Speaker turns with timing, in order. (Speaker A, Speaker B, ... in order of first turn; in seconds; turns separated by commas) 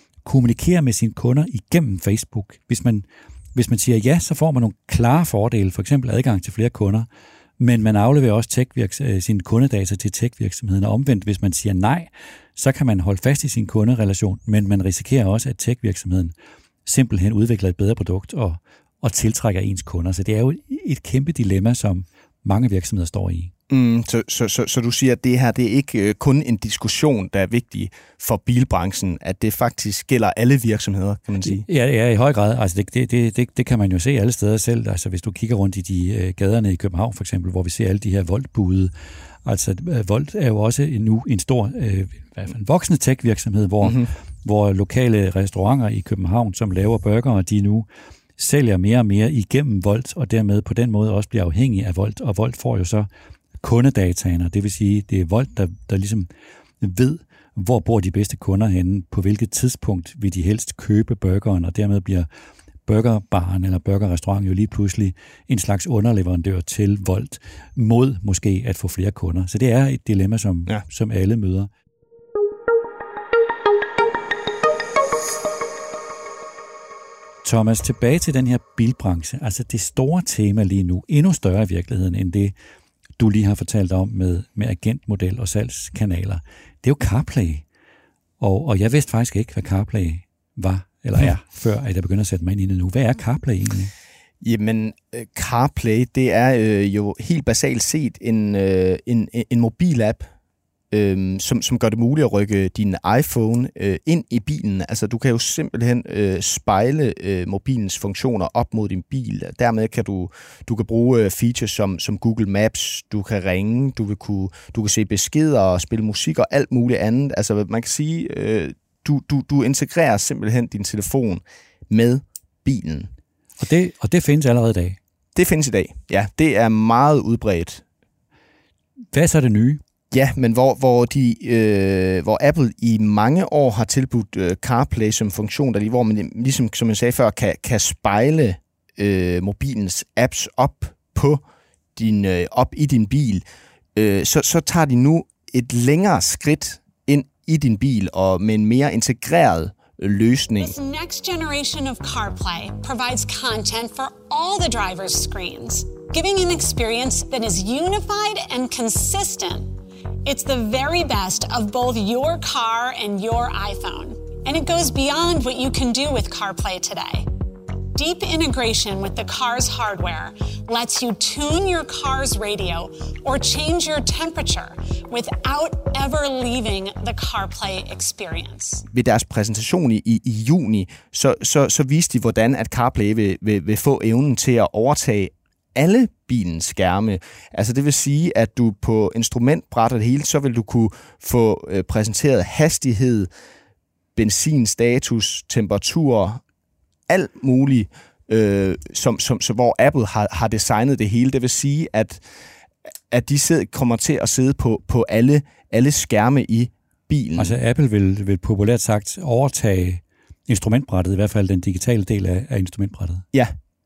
Speaker A: 0.2-7.1, Speaker A: 7.6-16.3, Speaker A: 16.8-23.5, Speaker B: 23.7-31.6, Speaker A: 31.4-38.9, Speaker A: 39.4-47.9, Speaker B: 43.8-44.1, Speaker A: 48.4-53.1, Speaker A: 53.6-56.3, Speaker A: 56.8-62.3, Speaker A: 62.9-71.7, Speaker A: 77.4-82.5, Speaker A: 83.2-87.6, Speaker A: 88.4-93.9, Speaker B: 94.4-100.3, Speaker B: 100.9-123.1, Speaker A: 123.6-125.0, Speaker B: 125.3-127.8, Speaker A: 129.1-129.8, Speaker B: 130.1-141.4, Speaker B: 141.9-143.4, Speaker B: 143.9-150.8, Speaker C: 150.6-159.7, Speaker C: 160.2-167.3, Speaker C: 167.9-178.8, Speaker B: 178.9-193.3, Speaker B: 194.2-196.4, Speaker B: 197.1-202.2, Speaker B: 203.1-207.6, Speaker A: 207.3-213.2